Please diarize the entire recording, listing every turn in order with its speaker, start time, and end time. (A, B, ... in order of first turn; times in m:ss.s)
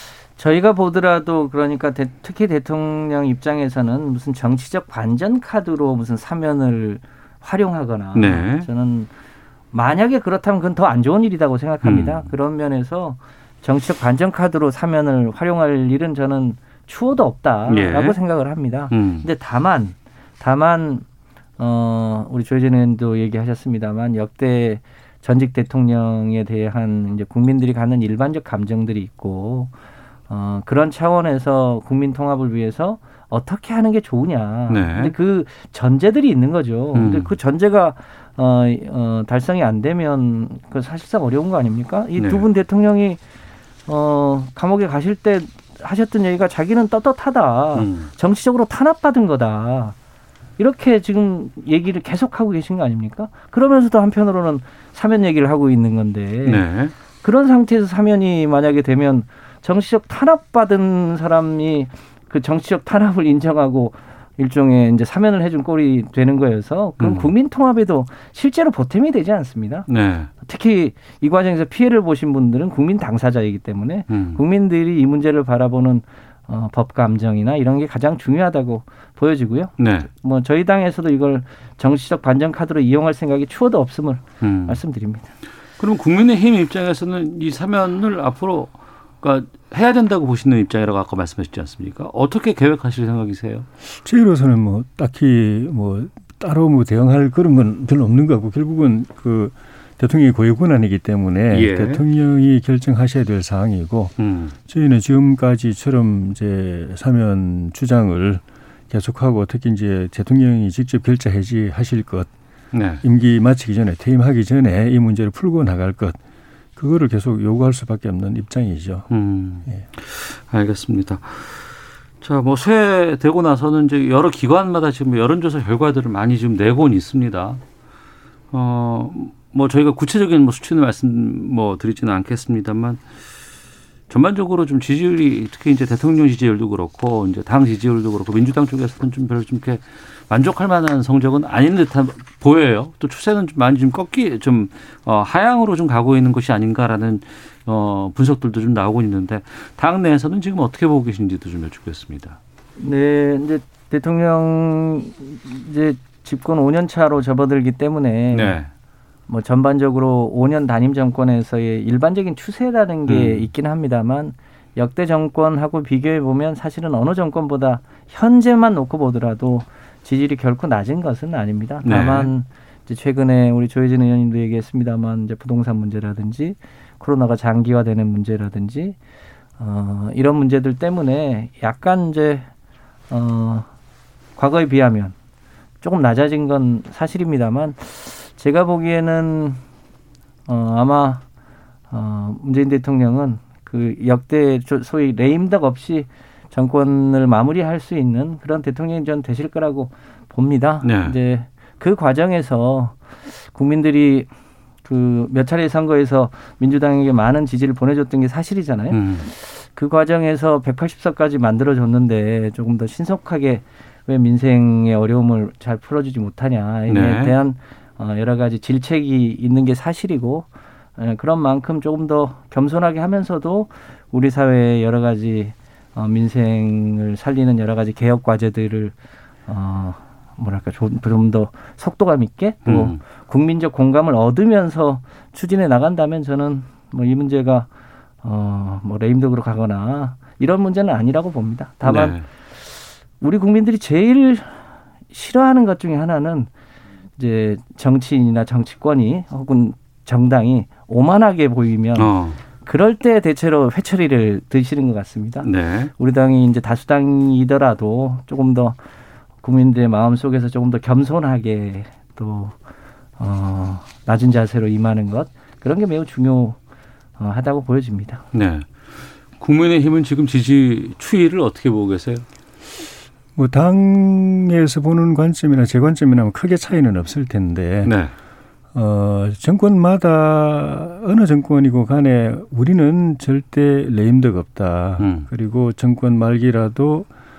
0:00.4-0:09.1 A
0:08.2-0:08.7 B
0:09.7-0:21.0 A
0:11.8-0:12.3 B
0:17.7-0:18.2 B
0:18.9-0:19.3 B
0:21.6-0:29.7 A
0:30.3-0:43.2 A
0:34.7-0:35.2 B
0:36.9-0:37.3 B
0:42.2-0:42.5 B
0:43.9-0:50.0 A
0:47.8-0:48.1 B
0:50.6-0:56.6 A
0:56.4-0:56.9 B
0:57.2-1:09.9 A
1:07.0-1:07.3 B
1:09.9-1:10.3 B
1:10.4-1:25.3 A
1:14.1-1:14.4 B
1:19.8-1:20.1 B
1:24.4-1:24.8 B
1:25.8-1:33.7 B
1:34.0-1:44.1 C
1:41.5-1:42.0 B
1:44.2-1:44.5 B
1:44.7-1:52.3 C
1:52.7-1:53.0 B
1:53.0-1:56.2 C
1:56.8-1:59.1 C
1:59.1-2:01.6 B
2:02.2-2:07.6 B
2:08.5-2:13.0 B
2:14.1-2:32.4 B
2:32.8-2:38.6 A
2:38.3-2:38.7 B
2:39.3-2:59.0 A
2:43.1-2:43.5 B
2:51.8-2:52.3 B
2:59.6-3:02.5 A
3:03.1-3:03.7 A
3:04.4-3:05.2 A
3:05.8-3:09.6 A
3:10.5-3:11.2 A
3:11.9-3:23.0 A
3:20.8-3:21.2 B
3:23.5-3:24.3 A
3:24.8-3:48.9 A
3:28.9-3:29.3 B
3:36.9-3:37.4 B
3:49.5-3:57.7 A
3:52.6-3:53.0 B
3:58.2-4:02.2 A
4:01.8-4:02.2 B
4:03.2-4:04.6 A
4:05.1-4:06.5 A
4:07.2-4:18.8 A
4:12.0-4:12.4 B
4:15.4-4:15.9 B
4:19.4-4:22.6 A
4:23.2-4:26.6 A
4:27.2-4:28.2 A
4:28.3-4:28.7 B
4:29.4-4:32.2 B
4:33.4-4:37.9 C
4:37.8-4:38.1 B
4:38.7-4:47.1 C
4:45.0-4:45.3 B